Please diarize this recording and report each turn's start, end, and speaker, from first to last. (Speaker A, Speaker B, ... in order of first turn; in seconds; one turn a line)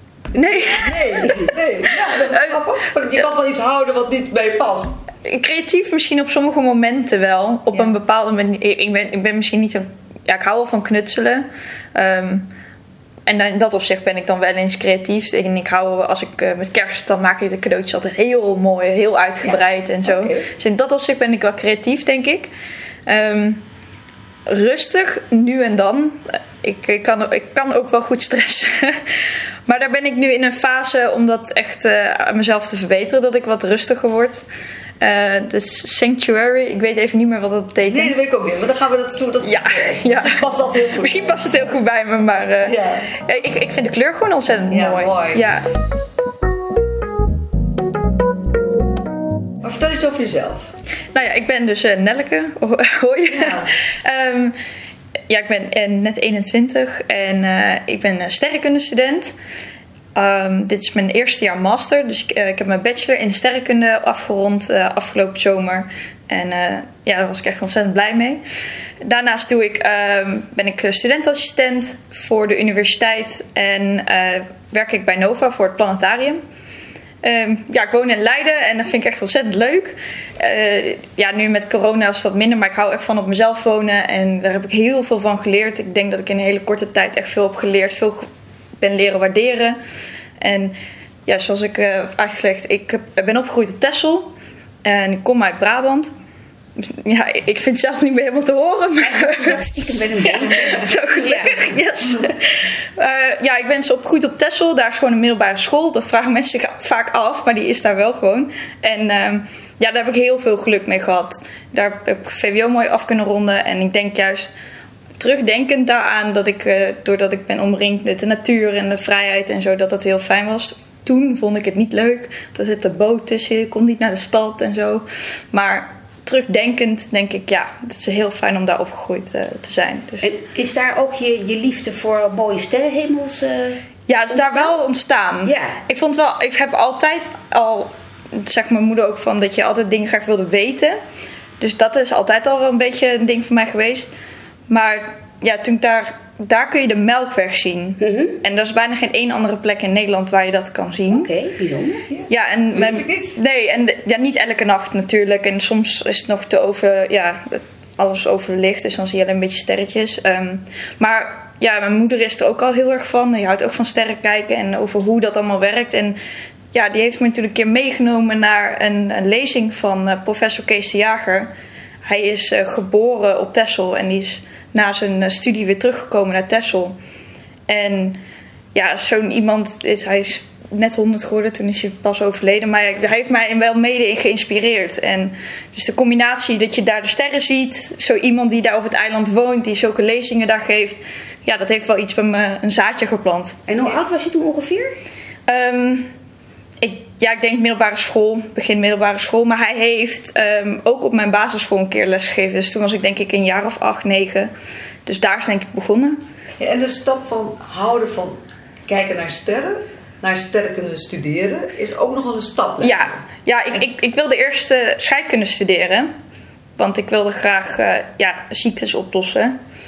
Speaker A: 0.3-2.6
Speaker B: 0.3-5.0
Speaker A: 5.2-12.5
Speaker A: 13.2-22.5
Speaker B: 19.4-20.5
Speaker A: 23.1-23.6
Speaker A: 24.4-29.1
Speaker A: 29.6-34.5
Speaker A: 35.0-38.2
Speaker B: 37.8-41.4
Speaker A: 39.4-45.7
Speaker B: 42.6-43.1
Speaker B: 44.7-45.5
Speaker B: 49.6-50.7
Speaker A: 51.1-54.6
Speaker B: 53.3-53.7
Speaker A: 55.3-59.3
Speaker A: 60.1-68.4
Speaker A: 69.0-76.4
Speaker A: 77.2-88.3
Speaker A: 88.8-89.8
Speaker A: 90.4-90.8
Speaker A: 91.2-96.1
Speaker A: 96.8-99.6
Speaker C: 99.0-101.7
Speaker A: 100.2-114.5
Speaker A: 115.2-130.2
Speaker C: 130.2-134.8
Speaker A: 134.1-141.0
Speaker C: 135.4-135.8
Speaker A: 141.6-144.1
Speaker A: 144.7-151.3
Speaker C: 148.0-148.4
Speaker C: 151.1-152.1
Speaker B: 152.1-153.3
Speaker A: 152.3-166.2
Speaker A: 166.7-171.5
Speaker A: 172.0-176.9
Speaker A: 177.7-178.2
Speaker A: 178.7-193.6
Speaker C: 193.7-194.9
Speaker A: 195.5-196.1
Speaker A: 196.8-204.5
Speaker A: 205.1-206.2
Speaker B: 206.6-213.2
Speaker A: 212.8-216.1
Speaker A: 216.8-219.6